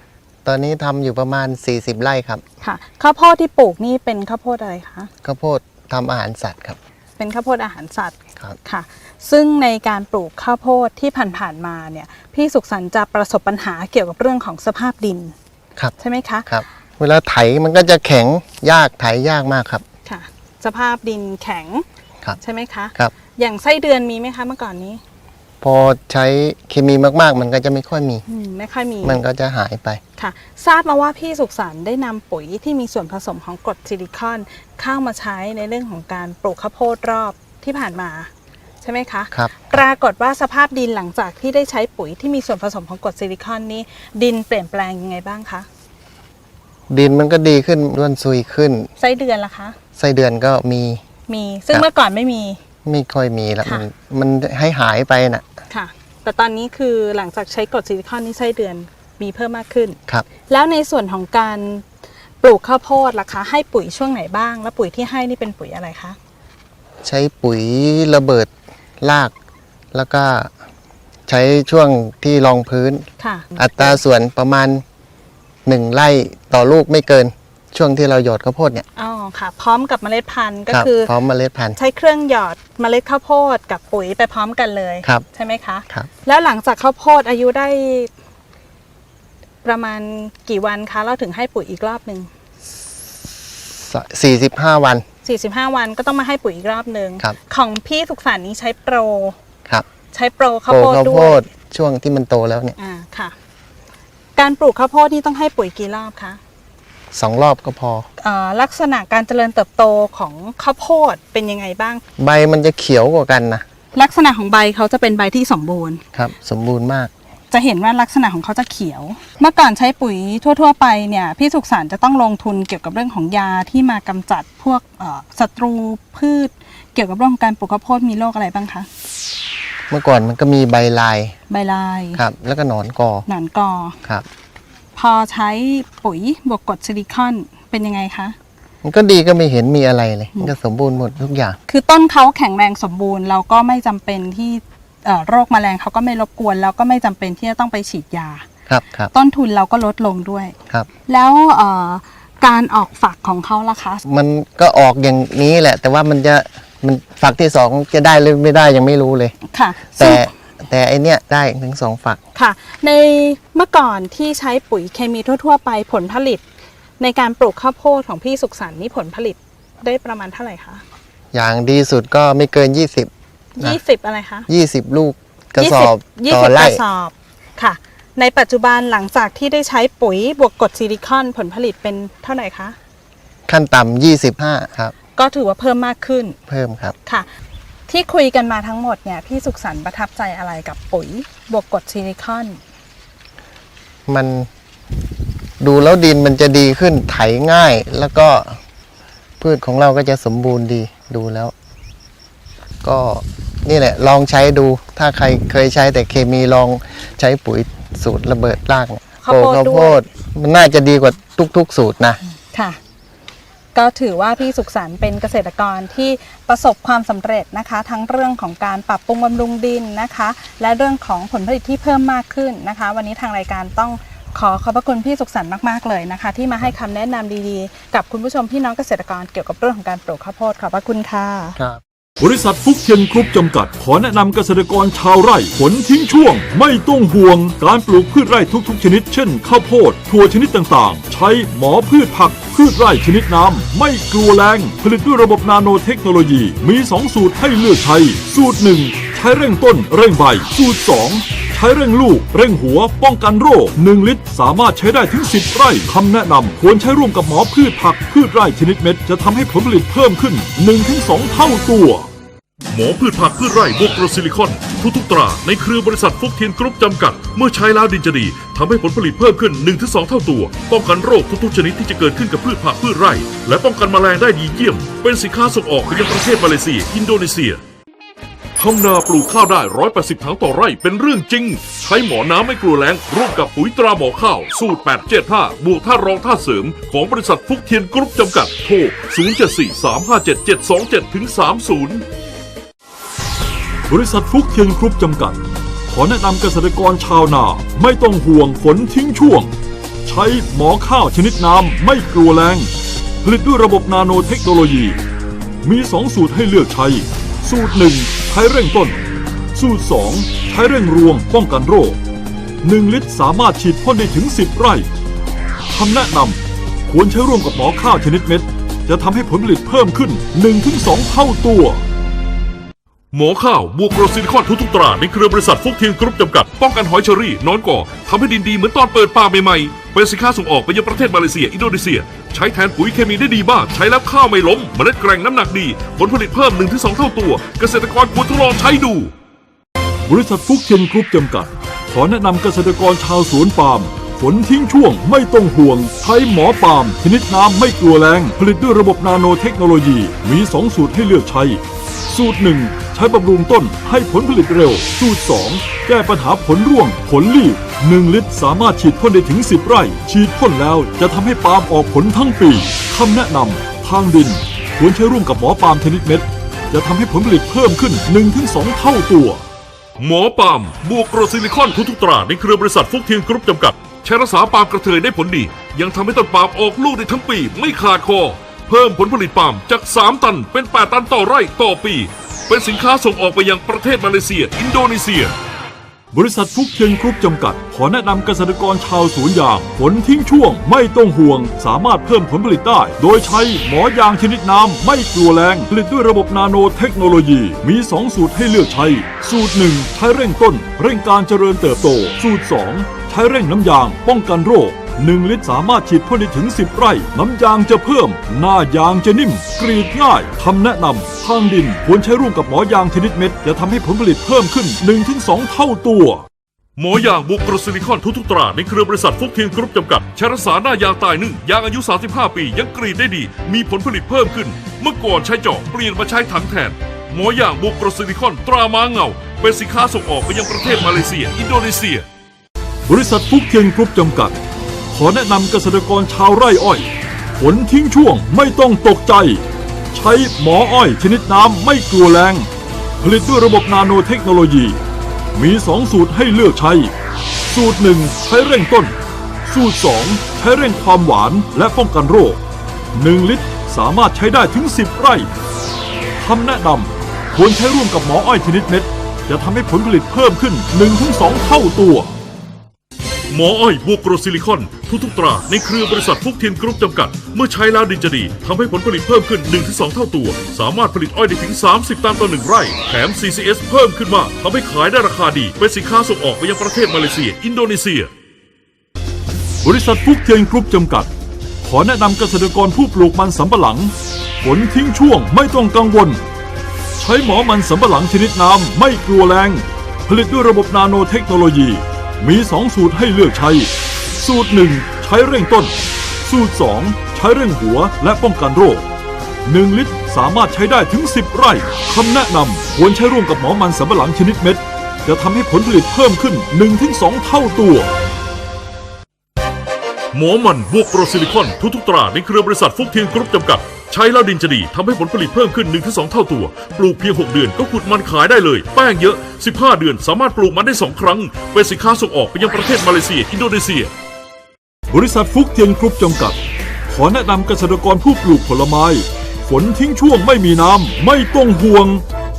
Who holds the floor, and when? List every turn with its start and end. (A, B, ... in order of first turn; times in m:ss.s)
0:00.4-0:02.4 A
0:02.6-0:05.1 B
0:05.2-0:06.8 A
0:07.2-0:15.4 B
0:16.0-0:16.5 B
0:16.5-0:19.8 A
0:20.0-0:21.8 B
0:22.4-0:25.0 B
0:25.6-0:28.2 A
0:28.3-0:29.2 B
0:29.0-0:30.0 A
0:30.2-0:38.3 B
0:38.8-0:45.7 B
0:39.3-0:39.8 A
0:46.9-0:48.9 A
0:49.0-0:49.8 B
0:50.0-0:51.0 A
0:51.3-0:52.6 B
0:52.8-0:55.4 A
0:55.7-1:01.8 B
1:02.4-1:06.2 B
1:07.0-1:08.5 A
1:09.0-1:09.3 A
1:09.9-1:10.5 A
1:11.3-1:14.8 A
1:13.2-1:14.0 B
1:15.6-1:18.9 A
1:19.0-1:21.1 B
1:20.7-1:21.8 A
1:21.8-1:28.1 B
1:29.6-1:32.3 B
1:33.8-1:35.0 A
1:35.2-1:39.4 B
1:40.1-1:41.4 B
1:40.7-1:42.8 A
1:42.8-1:43.3 B
1:44.4-1:46.4 B
1:47.1-1:48.1 A
1:48.2-1:52.0 B
1:52.2-1:53.6 A
1:53.9-1:56.0 B
1:56.1-1:57.1 A
1:57.5-2:08.9 B
2:09.9-2:11.4 A
2:11.5-2:12.2 B
2:12.2-2:13.3 A
2:13.3-2:14.0 B
2:15.0-2:18.4 B
2:18.8-2:21.6 A
2:21.7-2:28.4 B
2:28.7-2:29.1 A
2:29.1-2:30.6 B
2:31.1-2:34.0 B
2:34.0-2:39.4 A
2:39.5-2:40.3 B
2:39.9-2:42.2 A
2:42.3-2:46.4 B
2:47.0-2:50.8 B
2:51.3-2:53.8 A
2:53.6-2:54.5 B
2:54.5-2:56.8 A
2:55.6-3:02.8 B
3:03.5-3:04.9 A
3:05.2-3:06.4 B
3:06.5-3:07.0 A
3:07.9-3:12.6 B
3:14.1-3:14.5 A
3:15.6-3:18.6 A
3:19.4-3:21.5 A
3:22.8-3:32.2 A
3:29.2-3:30.0 B
3:32.5-3:32.8 B
3:33.7-3:51.6 B
3:52.2-4:22.1 C
4:22.7-4:37.6 D
4:38.6-4:52.0 D
4:53.9-5:02.7 C
5:03.2-5:05.0 C
5:05.6-5:09.0 C
5:09.5-5:12.0 C
5:12.6-5:14.9 C
5:15.7-5:21.8 C
5:23.1-5:39.1 D
5:40.1-6:09.4 C
6:10.0-6:25.4 D
6:26.1-6:56.3 C
6:56.8-7:12.1 D
7:12.9-7:24.8 C
7:25.3-7:26.9 C
7:27.5-7:32.4 C
7:32.9-7:35.3 C
7:36.2-7:42.1 C
7:43.3-7:58.1 D
7:59.6-8:01.1 C
8:01.6-8:06.3 C
8:07.0-8:18.9 C
8:19.4-8:27.9 C
8:30.1-8:43.9 D
8:44.9-8:46.4 C
8:46.9-8:52.0 C